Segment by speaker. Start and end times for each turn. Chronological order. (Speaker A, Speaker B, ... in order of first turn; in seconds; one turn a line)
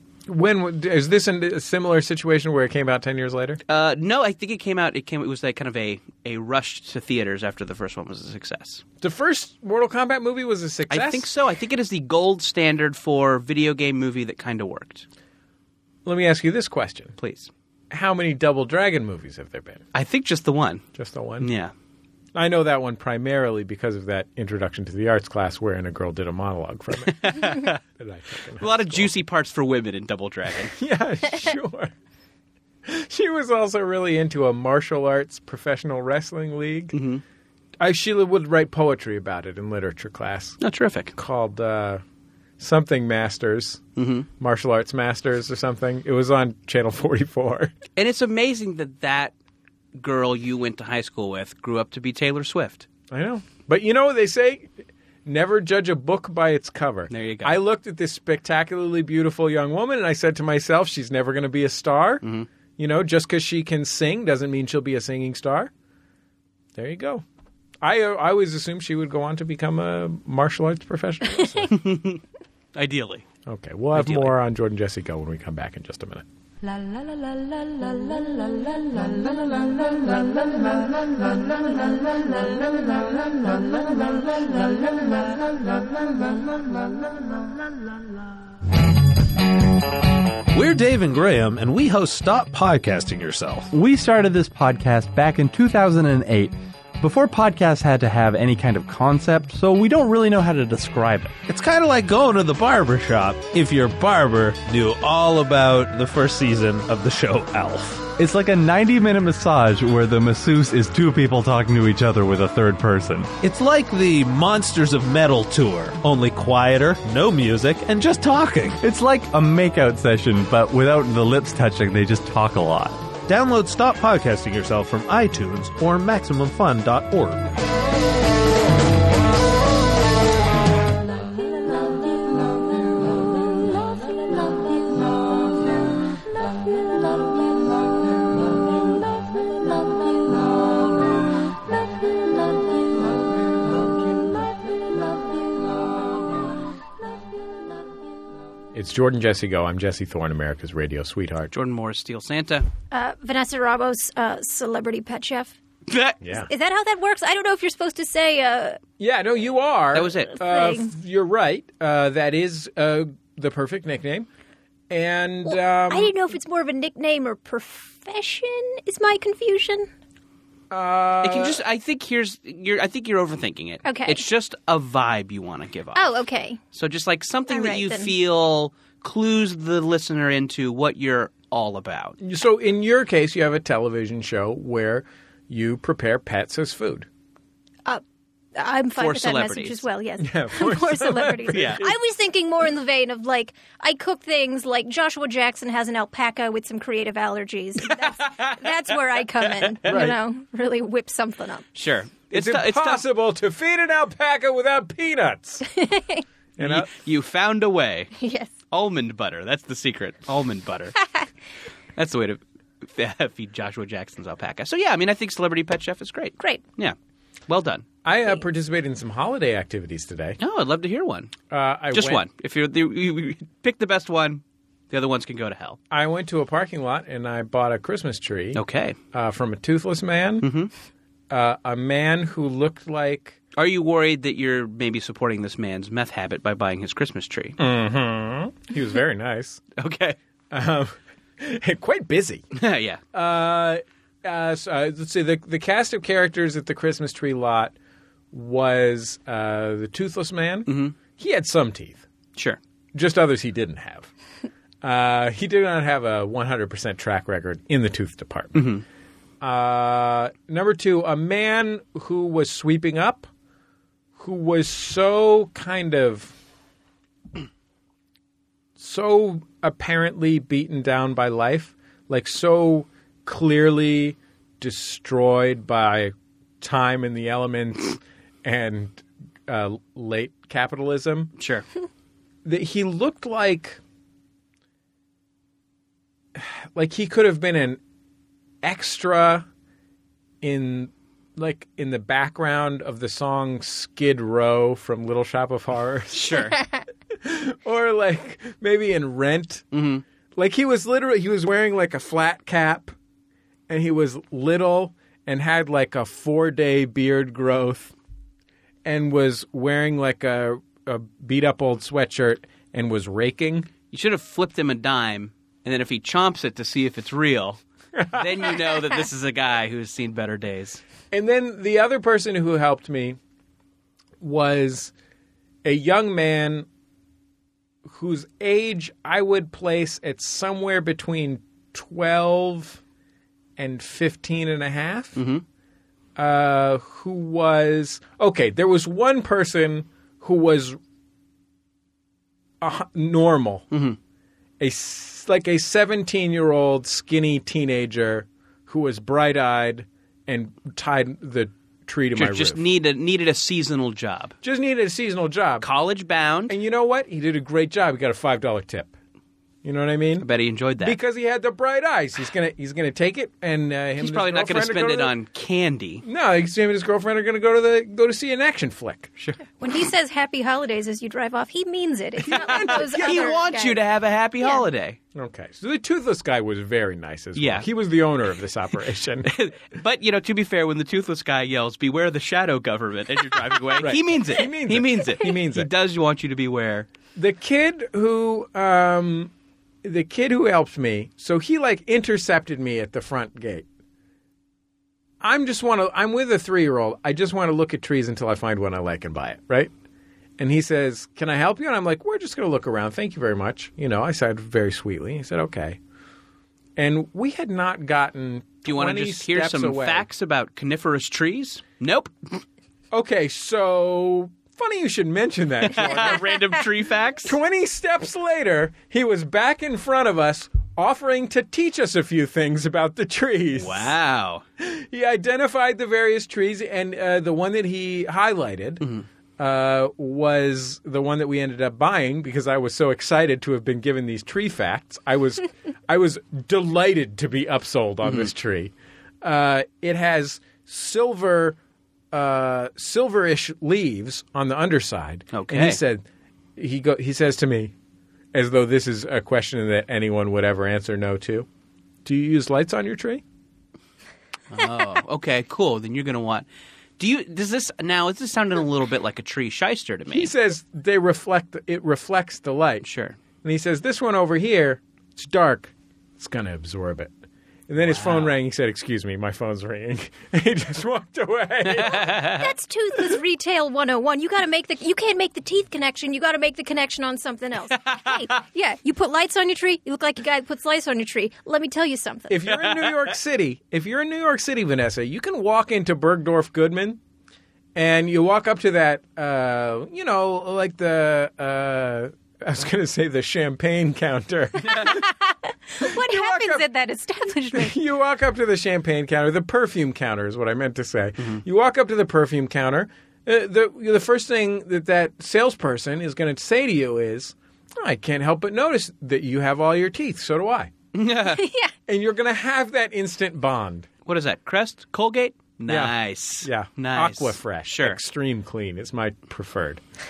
Speaker A: 0.3-3.6
Speaker B: 3.7-8.8
Speaker A: 9.0-11.3
Speaker B: 10.9-15.0
Speaker A: 16.0-17.2
Speaker B: 17.2-17.5
Speaker A: 17.9-19.8
Speaker B: 19.9-20.8
Speaker A: 20.9-21.5
Speaker B: 21.4-21.7
Speaker A: 22.3-29.1
Speaker B: 27.1-27.8
Speaker B: 28.6-30.7
Speaker A: 30.8-31.9
Speaker A: 32.8-37.0
Speaker B: 36.9-37.2
Speaker A: 37.8-40.6
Speaker B: 40.6-41.1
Speaker A: 41.1-42.0
Speaker A: 42.6-43.8
Speaker B: 44.0-44.3
Speaker A: 44.4-47.7
Speaker B: 48.0-49.3
Speaker B: 50.0-52.9
Speaker A: 53.1-62.2
Speaker B: 57.1-57.6
Speaker A: 62.8-65.7
Speaker A: 66.8-67.2
Speaker A: 67.8-71.8
Speaker B: 71.7-72.2
Speaker B: 72.7-73.2
Speaker A: 73.5-76.2
Speaker B: 73.9-74.3
Speaker C: 76.6-84.9
Speaker D: 90.5-93.7
Speaker E: 93.7-101.4
Speaker D: 101.5-108.1
Speaker E: 108.2-113.3
Speaker D: 113.4-118.8
Speaker E: 118.8-123.1
Speaker D: 123.2-127.5
Speaker A: 148.7-151.5
Speaker B: 151.5-152.7
Speaker F: 152.9-155.6
Speaker B: 155.9-156.2
Speaker A: 156.2-156.5
Speaker F: 156.3-158.8
Speaker A: 159.0-164.3
Speaker B: 159.9-160.3
Speaker F: 160.3-160.9
Speaker A: 164.9-166.1
Speaker F: 165.4-169.9
Speaker A: 170.7-171.6
Speaker B: 171.2-176.2
Speaker F: 173.8-174.2
Speaker F: 175.9-176.6
Speaker B: 176.7-182.2
Speaker F: 177.5-178.1
Speaker A: 182.2-187.1
Speaker F: 188.6-201.7
Speaker B: 188.9-189.8
Speaker A: 190.2-191.9
Speaker B: 191.5-191.8
Speaker B: 197.9-198.7
Speaker B: 199.4-199.9
Speaker A: 199.8-200.2
Speaker B: 201.7-203.0
Speaker A: 202.3-205.6
Speaker F: 205.7-206.2
Speaker A: 206.6-206.9
Speaker B: 206.6-208.1
Speaker F: 208.2-208.5
Speaker B: 208.7-210.9
Speaker B: 211.9-216.9
Speaker B: 217.5-217.8
Speaker A: 218.0-220.4
Speaker B: 220.4-221.3
Speaker A: 221.5-222.2
Speaker B: 221.9-225.8
Speaker A: 225.9-228.6
Speaker B: 228.5-228.9
Speaker A: 229.1-230.5
Speaker B: 230.4-230.7
Speaker A: 231.3-233.4
Speaker B: 233.6-237.6
Speaker A: 237.6-239.6
Speaker B: 239.8-240.2
Speaker A: 240.5-242.4
Speaker B: 242.5-243.0
Speaker A: 243.1-247.7
Speaker A: 248.3-252.0
Speaker B: 250.7-250.9
Speaker A: 252.9-254.1
Speaker A: 254.8-258.7
Speaker B: 258.5-258.8
Speaker A: 259.4-263.3
Speaker A: 264.2-266.3
Speaker A: 268.8-281.3
Speaker B: 281.4-281.6
Speaker A: 282.4-283.8
Speaker A: 286.3-287.8
Speaker A: 288.6-289.4
Speaker A: 290.4-296.5
Speaker B: 296.1-296.6
Speaker A: 297.1-299.7
Speaker B: 299.7-300.0
Speaker A: 300.4-302.9
Speaker A: 303.7-307.9
Speaker A: 308.8-313.7
Speaker B: 313.9-320.8
Speaker A: 317.9-318.5
Speaker A: 321.1-323.2
Speaker A: 324.2-324.9
Speaker A: 325.6-326.7
Speaker A: 327.9-332.8
Speaker A: 333.6-335.2
Speaker B: 335.2-335.4
Speaker A: 336.1-340.8
Speaker A: 342.6-343.7
Speaker B: 343.7-344.0
Speaker A: 344.6-352.6
Speaker B: 352.1-354.4
Speaker A: 354.4-355.7
Speaker B: 355.6-356.6
Speaker A: 356.5-358.9
Speaker A: 359.6-360.3
Speaker B: 360.2-361.0
Speaker A: 360.8-365.1
Speaker B: 364.0-366.0
Speaker A: 366.0-369.1
Speaker F: 369.6-373.8
Speaker A: 372.2-373.4
Speaker B: 372.3-375.0
Speaker A: 375.1-379.3
Speaker B: 377.4-377.6
Speaker B: 379.2-386.9
Speaker A: 383.8-385.7
Speaker A: 387.1-389.3
Speaker A: 389.8-393.6
Speaker A: 395.2-399.7
Speaker A: 400.4-405.8
Speaker A: 406.8-410.1
Speaker B: 408.6-412.4
Speaker A: 412.9-416.4
Speaker B: 415.7-417.4
Speaker A: 417.2-423.9
Speaker B: 423.5-424.4
Speaker A: 424.6-428.9
Speaker A: 429.4-441.6
Speaker B: 438.0-438.3
Speaker A: 442.1-446.0
Speaker B: 445.3-445.8
Speaker A: 446.6-447.7
Speaker A: 448.3-451.5
Speaker A: 452.0-453.2
Speaker B: 454.5-456.4
Speaker B: 457.0-460.3
Speaker A: 460.1-462.9
Speaker B: 462.8-463.2
Speaker A: 463.4-467.1
Speaker A: 467.7-472.4
Speaker B: 467.8-468.3
Speaker B: 471.7-472.4
Speaker F: 471.9-482.4
Speaker B: 477.8-478.2
Speaker A: 482.3-487.0
Speaker B: 482.5-482.9
Speaker A: 487.7-495.1
Speaker B: 494.6-494.9
Speaker F: 494.7-497.7
Speaker A: 495.8-496.7
Speaker A: 497.5-510.7
Speaker B: 510.9-511.4
Speaker F: 511.4-511.7
Speaker A: 511.9-513.9
Speaker B: 514.0-518.0
Speaker A: 515.7-519.8